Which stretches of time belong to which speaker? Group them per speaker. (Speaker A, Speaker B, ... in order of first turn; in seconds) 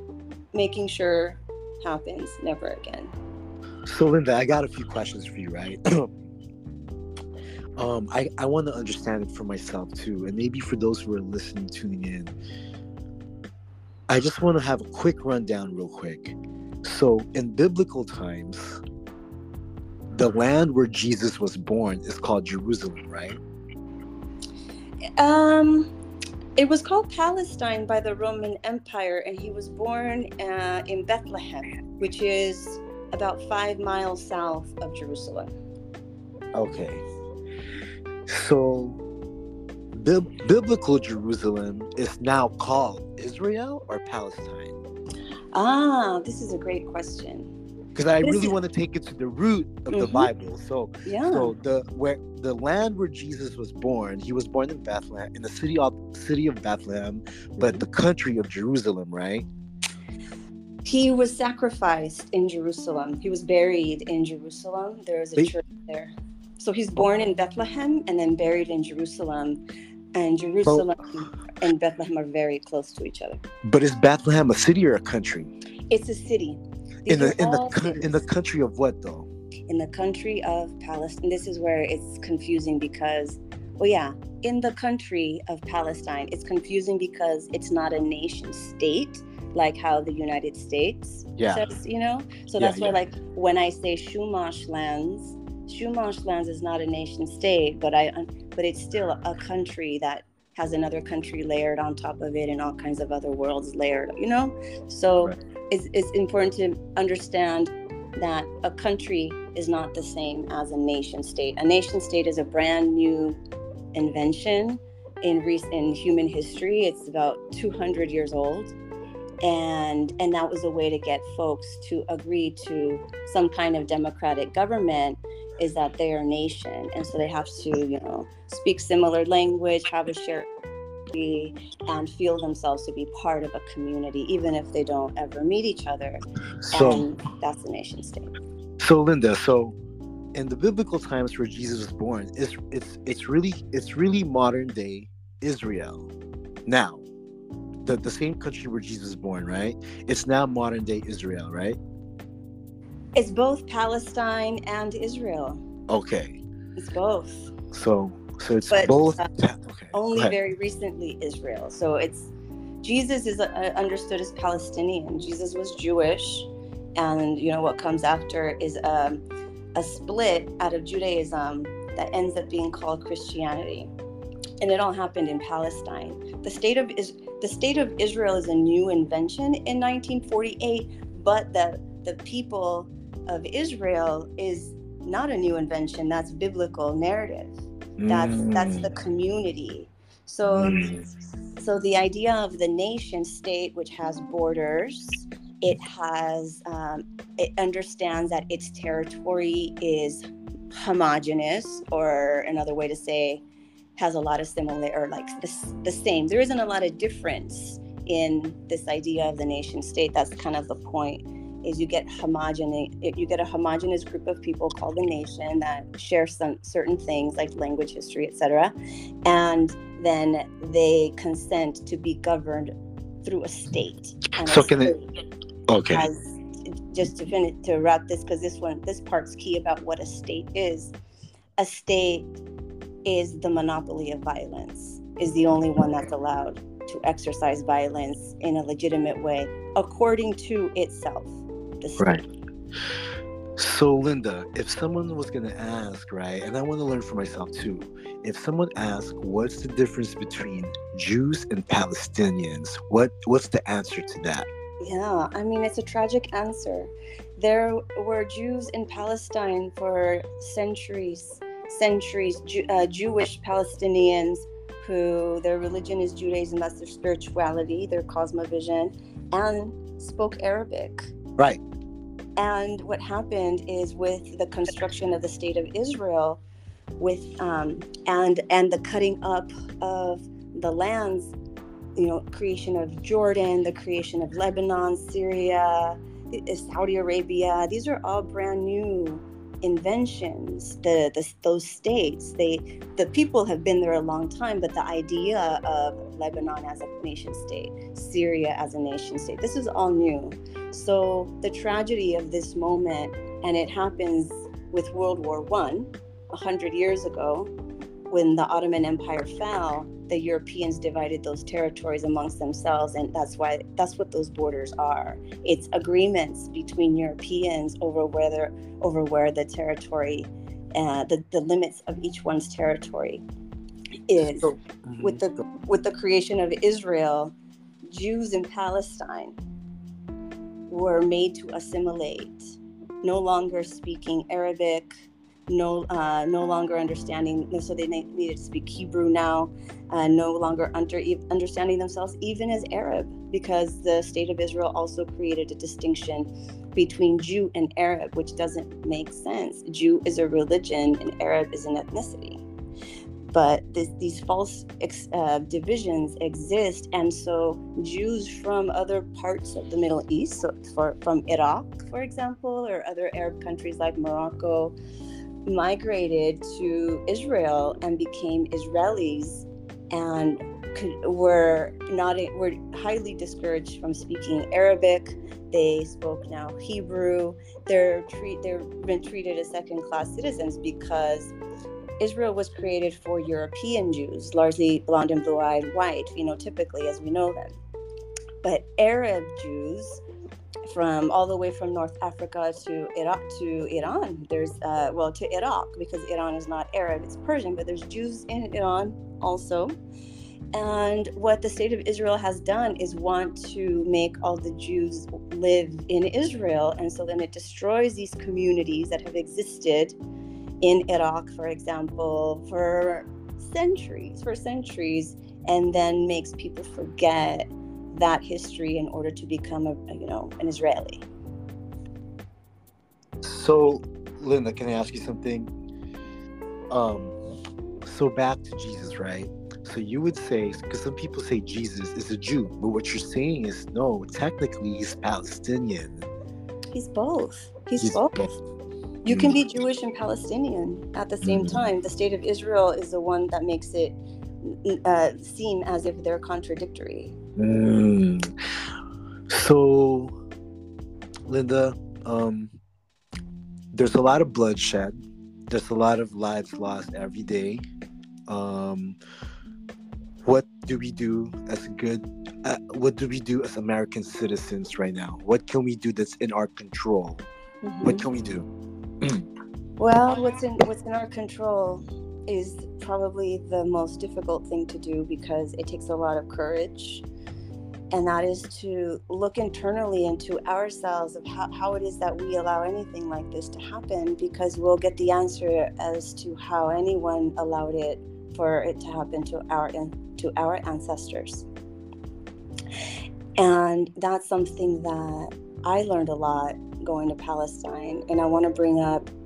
Speaker A: 0.5-3.1, 25.2-25.9, 26.6-35.5, 45.5-47.5, 48.2-48.5, 49.9-50.3, 51.0-51.5, 57.6-57.9, 60.9-69.6, 70.1-73.4, 75.9-78.2, 79.7-113.4, 113.9-118.8, 119.4-130.5, 131.1-138.3, 153.1-155.6, 156.8-157.5, 158.7-159.3, 159.9-162.3, 162.8-169.2, 169.7-173.9, 174.6-190.9, 191.6-203.4, 204.0-218.7, 219.2-222.7, 223.2-225.1, 225.9-230.9, 231.6-232.3, 233.1-242.2, 254.8-271.1, 272.4-276.4, 277.0-281.3, 281.9-307.5, 308.1-323.2, 324.1-327.4, 327.9-329.4, 330.7-352.4, 353.3-364.7, 365.4-381.3, 382.0-387.6, 388.4-390.0, 390.6-399.7, 400.5-409.9, 410.6-421.1, 436.7-438.3, 439.1-447.1, 467.6-468.1, 469.8-477.1, 477.9-491.4, 493.4-499.1
Speaker B: 3.9-6.1, 7.8-12.3, 14.1-18.8, 20.1-23.4, 36.5-37.0, 38.3-39.0, 39.9-44.8, 47.9-59.5, 73.6-75.5, 77.1-79.3, 91.4-91.6, 92.6-93.0, 136.6-137.1, 138.8-139.8, 140.3-146.1, 146.7-147.0, 147.8-151.8, 155.9-156.4, 157.7-160.3, 188.0-188.9, 190.5-191.1, 224.4-224.9, 225.7-226.1, 242.0-242.2, 243.6-254.5, 324.2-325.2, 423.2-425.5, 426.7-427.1, 427.9-436.1, 437.8-438.3, 439.1-439.4, 441.2-441.6, 447.4-448.3, 449.3-450.1, 451.3-452.5, 453.7-454.9, 455.5-457.6, 458.3-459.0, 460.2-467.2, 467.8-468.5, 469.0-469.2